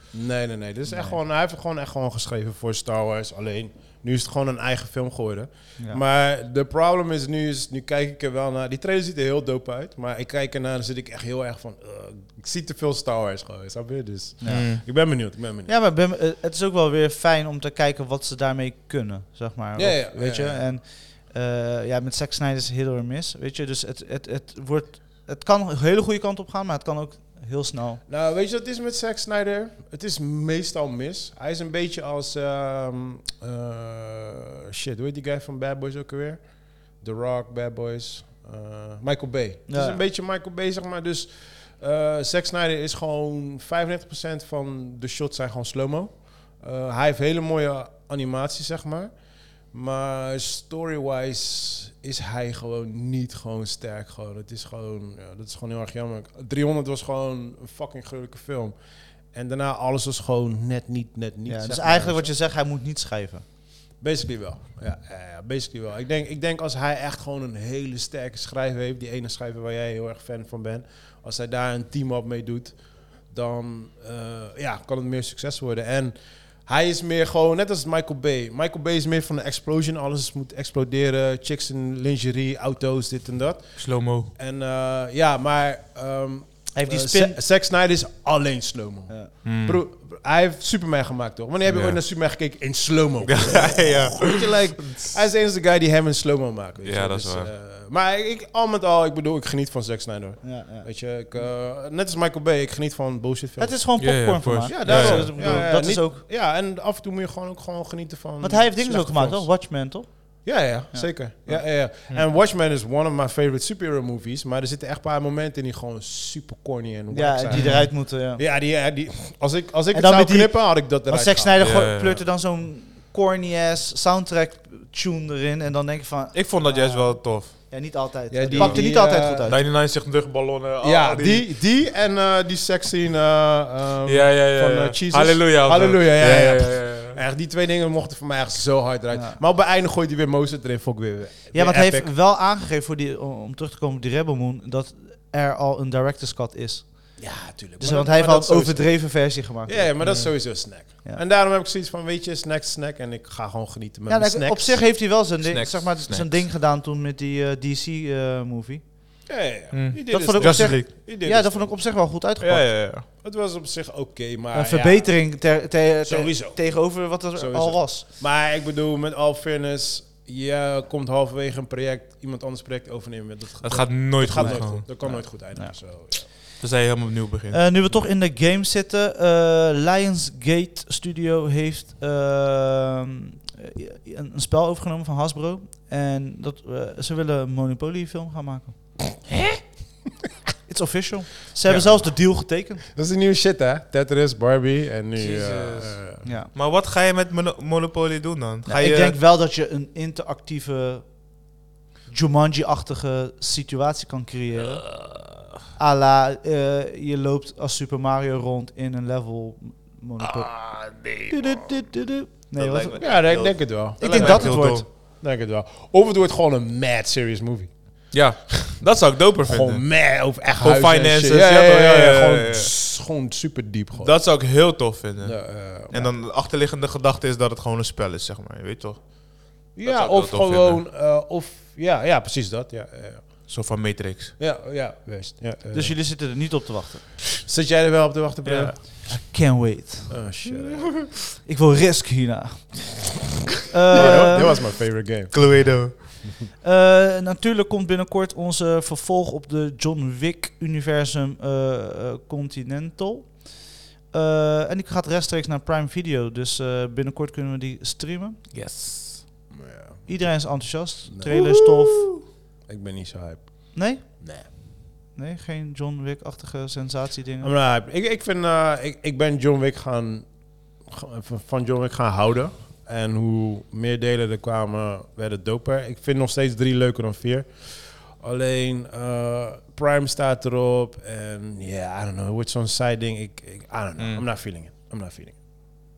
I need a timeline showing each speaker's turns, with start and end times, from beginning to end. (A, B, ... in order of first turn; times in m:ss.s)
0:00.1-0:15.7 A
0:00.9-0:01.2 B
0:14.4-0:15.0 B
0:14.5-0:14.8 C
0:15.6-0:28.0 B
0:19.8-0:20.7 A
0:28.1-1:02.3 A
0:39.7-0:40.0 B
1:01.5-1:03.4 B
1:04.0-1:44.0 A
1:23.8-1:24.3 C
1:26.7-1:27.4 B
1:29.4-1:29.8 C
1:31.7-1:32.0 C
1:33.3-1:35.1 C
1:36.8-1:37.5 C
1:40.4-1:41.4 B
1:43.6-1:46.2 B
1:44.0-1:45.7 C
1:44.7-1:49.5 A
1:48.4-1:51.7 B
1:50.4-2:01.7 A
1:57.1-1:58.4 B
1:57.5-1:57.9 C
1:59.9-2:09.6 B
2:01.6-2:02.2 C
2:06.3-2:07.7 C
2:08.3-2:09.5 A
2:08.5-2:08.9 C
2:09.5-2:11.4 C
2:10.8-2:22.1 A
2:14.1-2:17.2 C
2:19.1-2:19.4 B
2:21.5-2:30.2 B
2:27.2-2:35.0 A
2:30.0-2:30.3 C
2:34.1-2:38.9 B
2:35.4-2:36.3 C
2:39.2-2:41.8 A
2:39.7-2:40.9 C
2:40.1-2:42.7 B
2:42.4-2:43.0 C
2:42.9-2:45.5 A
2:44.5-2:48.0 B
2:46.0-2:56.3 A
2:53.6-2:54.9 C
2:54.3-2:55.8 B
2:56.6-2:57.6 C
2:57.5-3:09.1 B
3:10.7-3:12.8 B
3:11.7-3:12.2 A
3:12.8-3:16.2 A
3:15.2-3:19.2 C
3:16.2-3:16.5 B
3:18.6-3:21.5 B
3:22.1-3:24.9 B
3:25.8-3:34.9 B
3:30.2-3:31.3 C
3:32.6-3:34.9 C
3:33.0-3:38.2 A
3:38.1-3:42.7 C
3:39.4-3:44.2 A
3:44.0-3:50.8 C
3:45.2-3:46.1 A
3:49.8-3:53.5 A
3:53.5-3:54.4 C
3:54.4-3:56.0 A
3:55.7-3:57.2 B
3:57.4-3:58.8 A
3:58.5-3:58.7 C
3:58.8-4:00.2 B
4:00.1-4:01.1 A
4:01.4-4:03.0 B
4:03.7-4:04.6 B
4:03.9-4:06.0 A
4:04.0-4:04.7 C
4:05.3-4:06.2 C
4:06.6-4:18.4 B
4:18.5-4:19.2 C
4:19.5-4:20.2 A
4:20.0-4:22.1 B
4:21.1-4:21.4 A
4:21.3-4:22.1 C
4:22.6-4:24.5 A
4:23.7-4:27.5 B
4:27.4-4:45.4 A
4:44.0-4:44.2 C